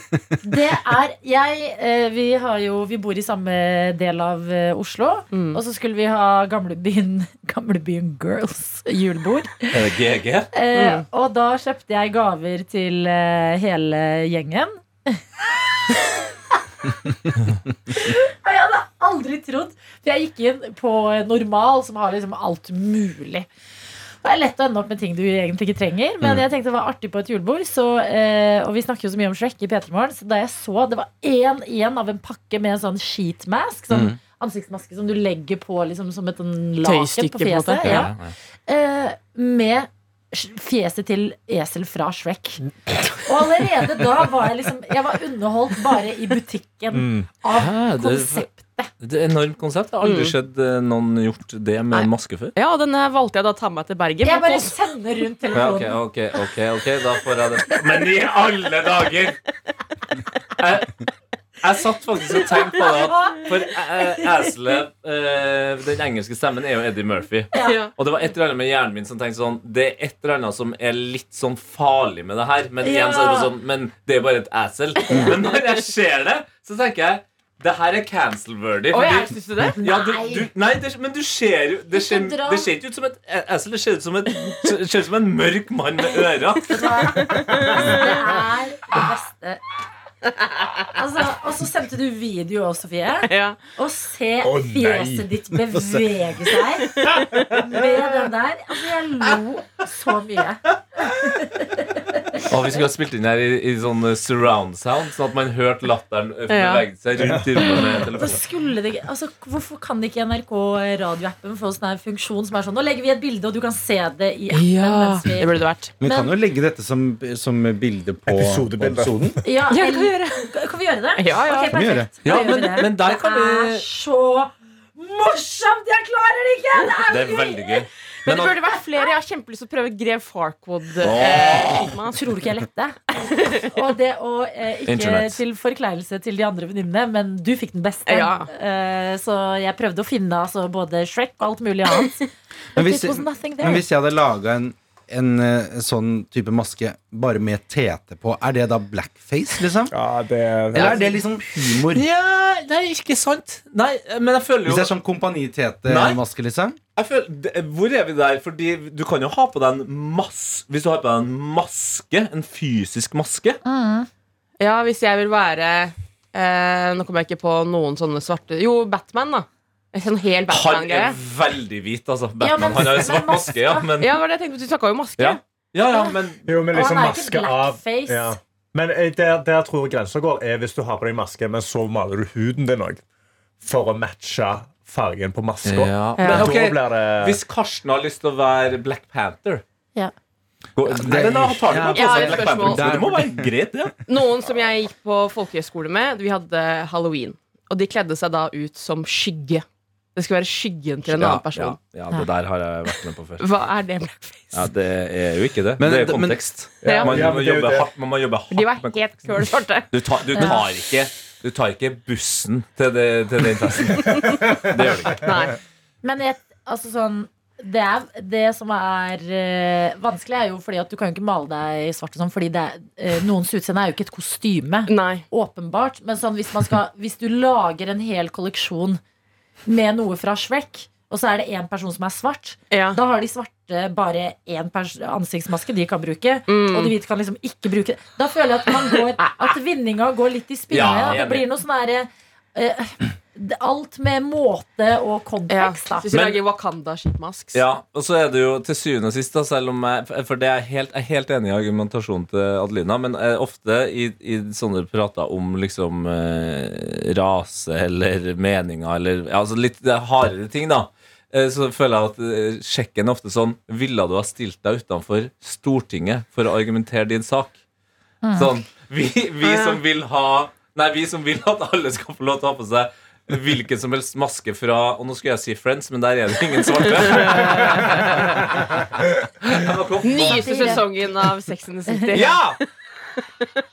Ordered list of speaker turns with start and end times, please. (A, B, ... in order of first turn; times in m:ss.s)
0:00.4-0:09.8 A
0:05.3-0:05.6 B
0:09.7-0:10.5 C
0:10.5-0:15.2 A
0:10.7-0:11.0 B
0:17.9-0:23.5 A
0:24.2-0:38.1 A
0:33.9-0:34.2 D
0:36.8-0:38.1 B
0:37.8-0:38.3 C
0:38.7-0:42.6 A
0:43.2-0:48.9 A
0:46.9-0:47.3 E
0:47.5-0:48.5 C
0:49.0-0:52.6 C
0:50.0-0:50.4 B
0:52.0-0:54.8 B
0:54.2-0:56.0 A
0:55.5-0:59.4 C
1:00.6-1:01.0 C
1:01.6-1:27.3 C
1:02.6-1:03.5 A
1:07.5-1:07.8 A
1:07.5-1:07.9 B
1:12.8-1:13.5 A
1:18.9-1:19.8 B
1:19.7-1:20.5 A
1:21.9-1:22.7 A
1:26.7-1:29.6 A
1:27.3-1:27.9 B
1:30.9-1:42.5 A
1:33.3-1:33.6 B
1:34.4-1:35.3 E
1:35.7-1:36.1 D
1:42.4-1:48.4 C
1:46.5-1:46.9 B
1:47.2-1:47.5 E
1:47.7-1:56.4 A
1:54.5-1:55.9 B
1:56.0-1:59.4 D
1:58.3-1:59.4 E
1:59.4-2:07.8 A
1:59.7-2:00.5 B
2:01.2-2:01.8 B
2:01.7-2:02.1 D
2:02.2-2:03.8 C
2:07.1-2:08.6 C
2:08.2-2:12.4 B
2:11.0-2:11.9 C
2:11.7-2:13.0 A
2:13.2-2:13.7 B
2:13.6-2:22.2 A
2:14.9-2:15.4 C
2:18.1-2:18.5 B
2:22.8-2:23.8 A
2:22.8-2:29.9 D
2:29.9-2:31.0 E
2:30.7-2:32.0 D
2:31.9-2:34.9 C
2:34.7-2:36.8 D
2:35.9-2:36.2 C
2:37.0-2:43.6 C
2:43.6-2:44.1 A
2:44.6-2:51.2 B
2:50.5-2:54.2 C
2:52.4-2:53.9 A
2:54.0-2:55.4 B
2:55.2-2:56.4 C
2:55.9-2:56.2 A
2:56.5-3:03.0 E
2:56.7-2:58.4 A
3:03.6-3:07.4 E
3:05.6-3:09.6 C
3:06.2-3:06.5 B
3:10.8-3:13.9 C
3:10.8-3:13.5 D
3:11.9-3:13.0 B
3:14.1-3:19.6 B
3:20.2-3:21.8 B
3:21.1-3:23.5 C
3:23.4-3:24.7 B
3:24.5-3:35.3 C
3:25.8-3:26.5 D
3:26.8-3:27.9 E
3:26.8-3:27.2 B
3:28.5-3:30.7 B
3:30.4-3:30.6 A
3:34.0-3:34.5 B
3:34.1-3:34.6 E
3:35.1-3:35.6 B
3:36.0-3:49.0 A
3:44.9-3:45.2 B
3:49.7-4:06.1 A
3:52.7-3:53.0 B
3:56.5-3:57.0 B
3:58.9-3:59.5 B
4:00.7-4:01.5 C
4:05.5-4:07.6 B
4:06.1-4:06.4 C
4:07.5-4:27.6 C
4:28.2-4:28.5 A
4:28.4-4:38.6 C
4:29.5-4:29.8 B
4:36.8-4:38.6 B
4:39.4-4:40.8 C
4:40.0-4:42.6 B
4:40.2-4:40.9 A
4:42.1-4:42.6 C